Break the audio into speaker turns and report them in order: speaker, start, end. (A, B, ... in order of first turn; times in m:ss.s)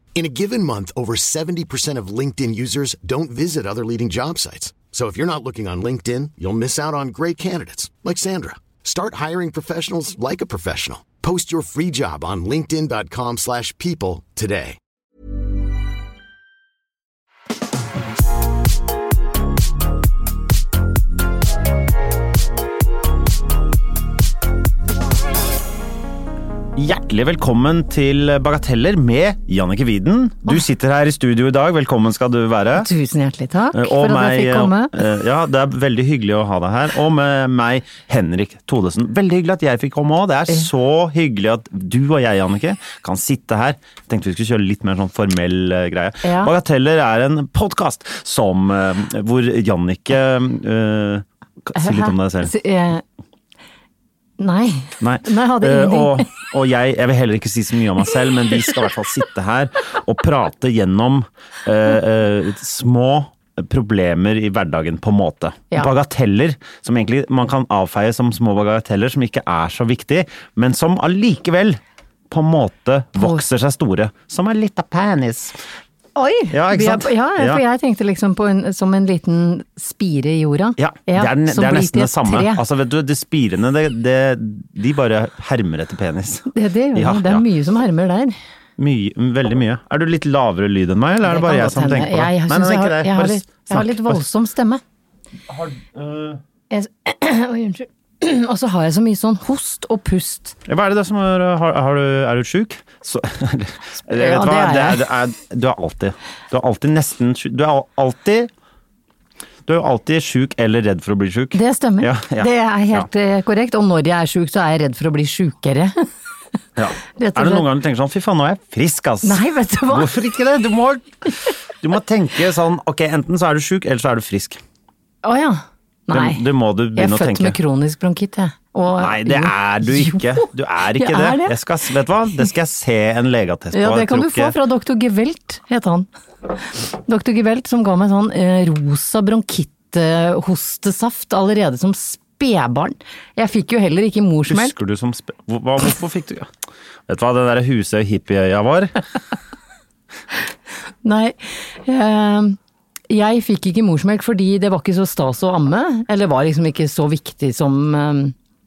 0:00.1-0:14.8 A
0:26.7-0:32.9 B
0:32.8-0:34.9 C
0:33.7-0:52.5 B
0:46.2-0:46.5 C
0:51.8-0:53.0 C
0:54.4-0:56.3 C
0:55.0-1:15.6 B
1:16.2-1:22.6 C
1:16.5-1:17.6 B
1:20.8-1:27.4 B
1:26.5-1:28.4 C
1:28.8-1:34.2 B
1:31.2-1:34.8 C
1:35.5-1:36.4 B
1:36.7-1:40.6 C
1:40.6-1:48.5 B
1:44.1-1:45.0 C
1:49.6-1:53.1 B
1:51.5-1:56.1 C
1:56.8-2:04.6 B
1:57.2-1:57.7 C
1:59.2-2:00.1 C
2:05.2-2:06.4 C
2:06.1-2:07.6 B
2:06.9-2:11.6 C
2:09.0-2:14.6 B
2:13.7-2:24.7 C
2:24.5-2:26.5 B
2:27.1-2:29.0 B
2:31.0-2:32.6 C
2:33.1-2:38.3 C